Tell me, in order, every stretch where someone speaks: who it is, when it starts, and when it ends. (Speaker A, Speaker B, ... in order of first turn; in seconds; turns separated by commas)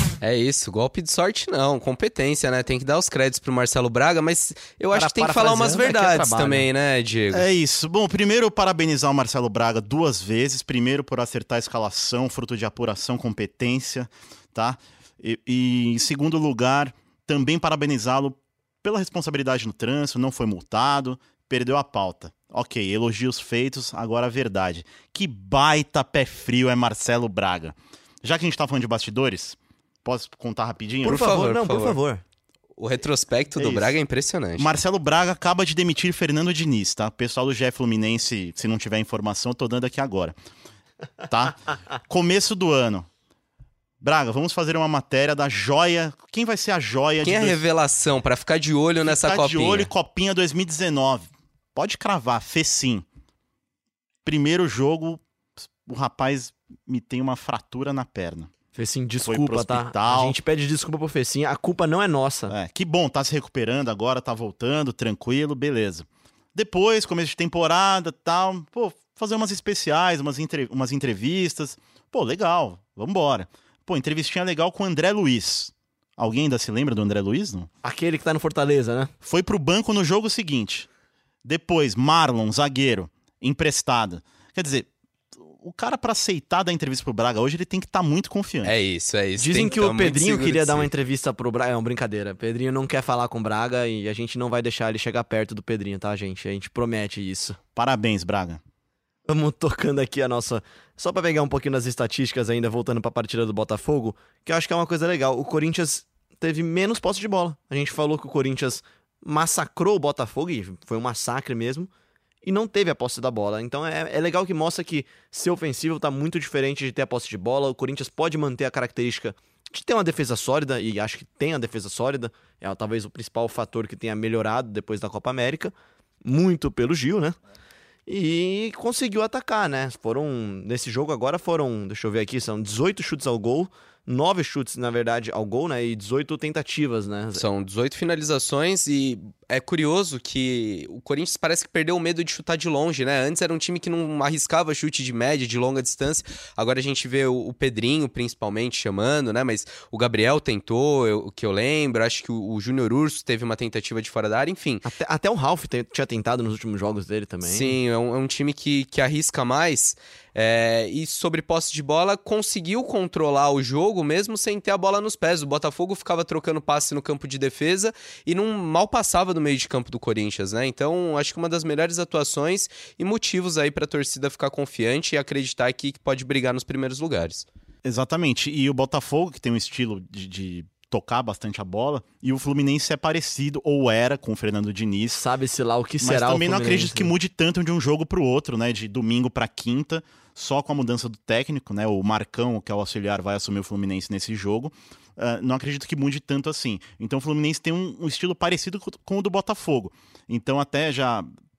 Speaker A: 0.2-7.5, Speaker B: 4.9-6.7, Speaker C: 7.3-31.3, Speaker B: 31.0-32.2, Speaker A: 31.1-32.0, Speaker A: 32.8-34.8, Speaker C: 33.6-34.0, Speaker C: 34.6-40.4, Speaker C: 41.3-43.1, Speaker C: 44.0-47.6, Speaker A: 47.2-49.9, Speaker C: 49.0-53.1, Speaker C: 54.2-58.5, Speaker B: 58.8-62.5, Speaker C: 59.2-60.4, Speaker C: 62.5-77.7, Speaker B: 77.8-79.1, Speaker C: 79.2-80.9, Speaker C: 81.4-84.9, Speaker C: 85.5-88.7, Speaker A: 88.7-90.9, Speaker B: 89.4-97.6, Speaker C: 97.8-98.6, Speaker B: 99.3-111.9, Speaker B: 112.4-127.4, Speaker B: 128.1-137.4, Speaker A: 137.3-154.9, Speaker B: 154.8-157.8, Speaker A: 157.4-177.5, Speaker C: 177.8-185.2, Speaker B: 185.1-187.1, Speaker C: 186.0-201.3